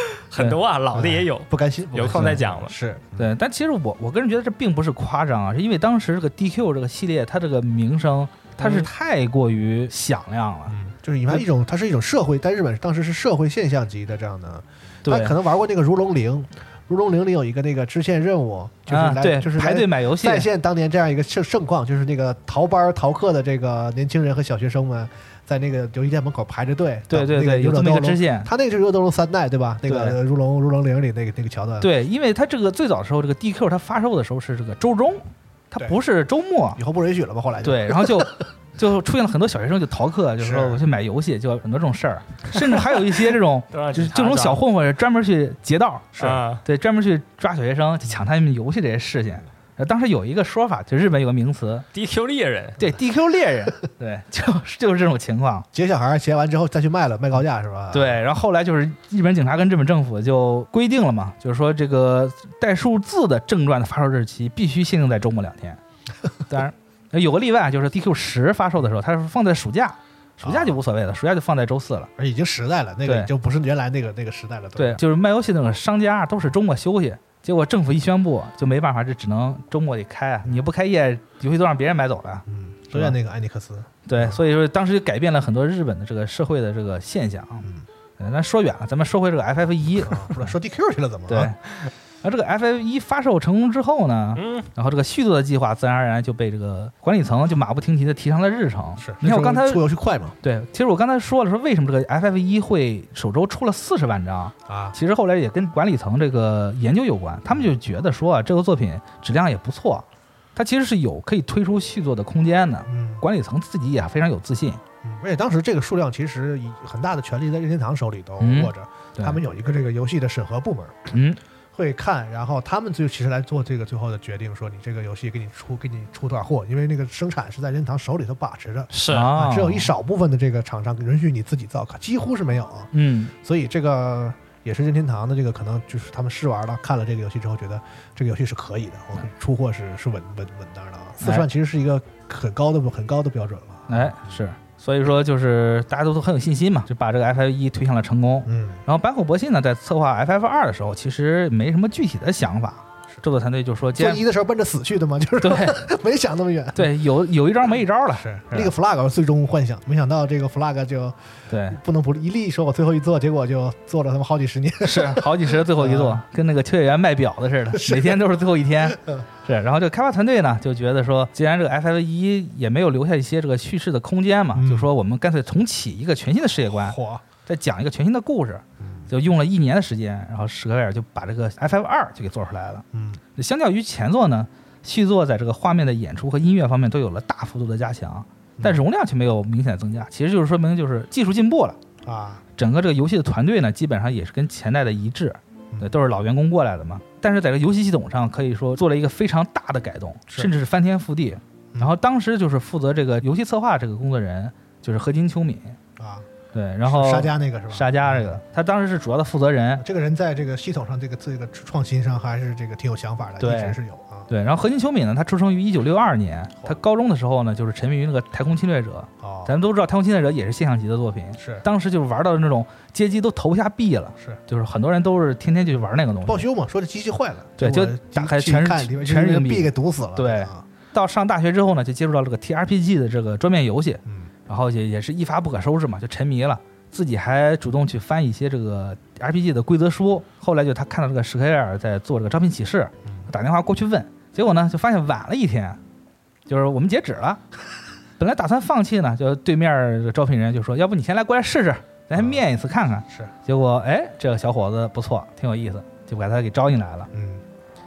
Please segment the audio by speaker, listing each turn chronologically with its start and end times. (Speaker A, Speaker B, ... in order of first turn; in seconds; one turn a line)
Speaker A: 0.3-2.7
Speaker B: 0.9-3.3
Speaker C: 3.2-10.8
Speaker B: 10.7-31.9
Speaker C: 15.0-15.3
Speaker C: 18.9-20.5
Speaker C: 27.1-28.5
Speaker C: 29.9-30.2
Speaker C: 31.8-36.8
Speaker B: 36.8-38.4
Speaker C: 37.6-51.9
Speaker B: 40.4-40.8
Speaker A: 43.7-44.6
Speaker A: 46.2-46.6
Speaker A: 51.9-52.8
Speaker C: 52.8-55.7
Speaker B: 55.7-58.2
Speaker C: 57.9-65.8
Speaker C: 66.5-72.1
Speaker B: 70.4-70.8
Speaker B: 72.2-75.0
Speaker C: 73.0-73.3
Speaker C: 74.8-83.2
Speaker B: 82.5-84.4
Speaker C: 84.0-87.7
Speaker C: 88.2-90.5
Speaker B: 90.0-91.5
Speaker C: 91.3-91.6
Speaker C: 92.2-99.8
Speaker A: 94.3-94.7
Speaker B: 99.0-100.3
Speaker C: 100.4-114.8
Speaker B: 104.7-105.0
Speaker B: 112.9-113.2
Speaker B: 115.0-121.1
Speaker C: 118.4-119.4
Speaker C: 121.1-121.4
Speaker B: 121.7-144.4
Speaker A: 128.9-129.3
Speaker C: 129.1-129.9
Speaker C: 132.9-133.3
Speaker C: 141.2-141.4
Speaker C: 143.9-154.2
Speaker B: 148.4-148.8
Speaker B: 153.9-156.9
Speaker C: 155.4-155.9
Speaker C: 156.7-158.7
Speaker B: 158.2-166.2
Speaker C: 161.5-161.8
Speaker C: 164.8-191.8
Speaker B: 167.7-168.2
Speaker B: 174.5-174.9
Speaker B: 176.6-177.2
Speaker B: 178.8-179.1
Speaker B: 182.9-183.2
Speaker B: 192.0-192.4
Speaker C: 192.6-205.8
Speaker B: 206.0-206.3
Speaker C: 206.5-209.8
Speaker B: 206.8-208.4
Speaker B: 209.8-214.3
Speaker C: 213.4-213.8
Speaker C: 214.3-226.4
Speaker B: 219.2-219.5
Speaker B: 221.4-221.6
Speaker B: 226.2-230.6
Speaker C: 227.6-245.8
Speaker B: 234.1-234.3
Speaker B: 243.0-243.3
Speaker C: 246.5-247.4
Speaker C: 248.2-257.1
Speaker B: 252.1-252.4
Speaker B: 257.1-257.4